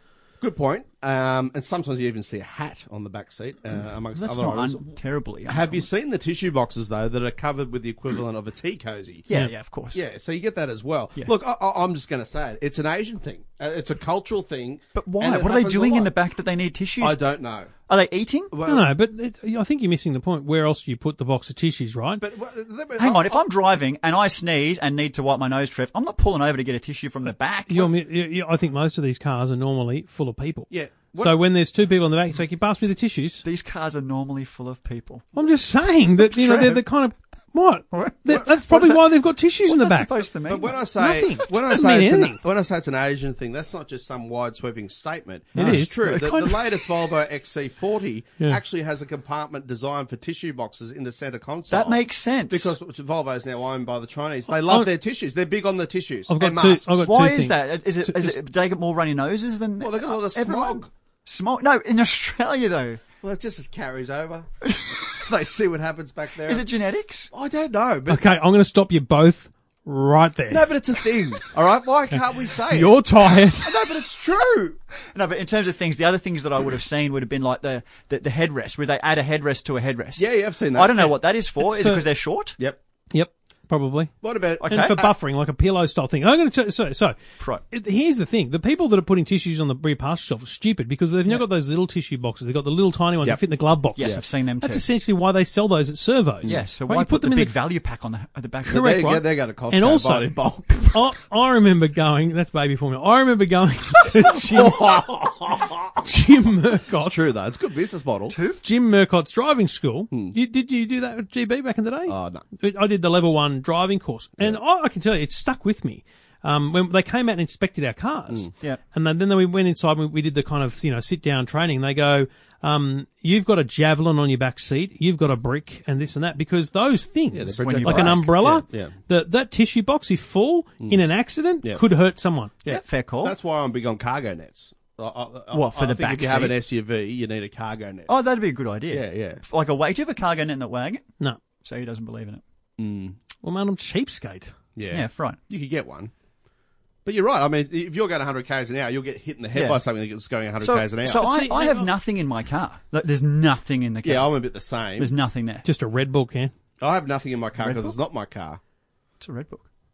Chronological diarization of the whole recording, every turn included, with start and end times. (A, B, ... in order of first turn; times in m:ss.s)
0:00.4-0:04.8 A
0:04.1-0:05.9 B
0:05.4-0:09.3 A
0:09.3-0:10.0 B
0:09.9-0:16.1 A
0:15.0-0:17.2 B
0:17.0-0:17.7 A
0:17.9-0:18.5 B
0:18.5-0:18.9 A
0:18.7-0:22.2 C
0:22.2-0:23.4 A
0:23.0-0:27.9 B
0:27.7-0:33.4 C
0:30.7-0:31.4 A
0:33.4-0:35.3 B
0:35.4-0:40.1 C
0:36.2-0:36.8 B
0:37.9-0:40.8 B
0:40.5-0:57.1 A
0:41.0-0:42.4 C
0:45.6-0:46.4 C
0:45.6-0:46.9 B
0:51.7-0:52.8 B
0:54.5-0:54.9 C
0:56.3-0:58.4 C
0:57.0-1:03.0 B
0:59.8-1:00.9 A
1:03.2-1:06.6 A
1:04.6-1:05.1 B
1:06.4-1:07.3 B
1:07.3-1:08.2 A
1:08.1-1:10.7 C
1:10.5-1:13.0 A
1:12.7-1:13.7 C
1:13.6-1:14.8 A
1:15.1-1:22.6 B
1:20.2-1:21.1 A
1:21.6-1:22.0 C
1:23.1-1:24.1 C
1:24.2-1:25.1 A
1:24.6-1:25.0 B
1:24.7-1:27.2 C
1:27.7-1:37.5 C
1:34.0-1:34.9 B
1:34.0-1:34.2 A
1:36.4-1:38.9 B
1:38.7-1:41.0 A
1:38.7-1:45.0 C
1:44.1-1:46.1 A
1:46.0-1:47.3 C
1:46.9-1:48.4 A
1:48.3-1:48.6 B
1:48.6-2:12.5 C
1:50.1-1:50.4 A
1:52.1-1:52.4 A
2:07.3-2:09.0 A
2:07.6-2:08.4 B
2:12.6-2:18.1 A
2:12.7-2:13.4 B
2:15.5-2:16.6 B
2:18.1-2:21.1 B
2:18.9-2:19.4 A
2:21.6-2:22.4 B
2:22.8-2:23.2 A
2:23.4-2:24.5 C
2:24.8-2:26.1 A
2:24.9-2:25.4 B
2:27.0-2:31.3 A
2:29.5-2:29.8 B
2:30.6-2:34.3 B
2:31.1-2:31.9 C
2:34.0-2:35.1 A
2:35.0-2:35.6 B
2:35.6-2:36.5 C
2:36.8-2:38.6 A
2:37.6-2:38.0 B
2:39.2-2:39.6 B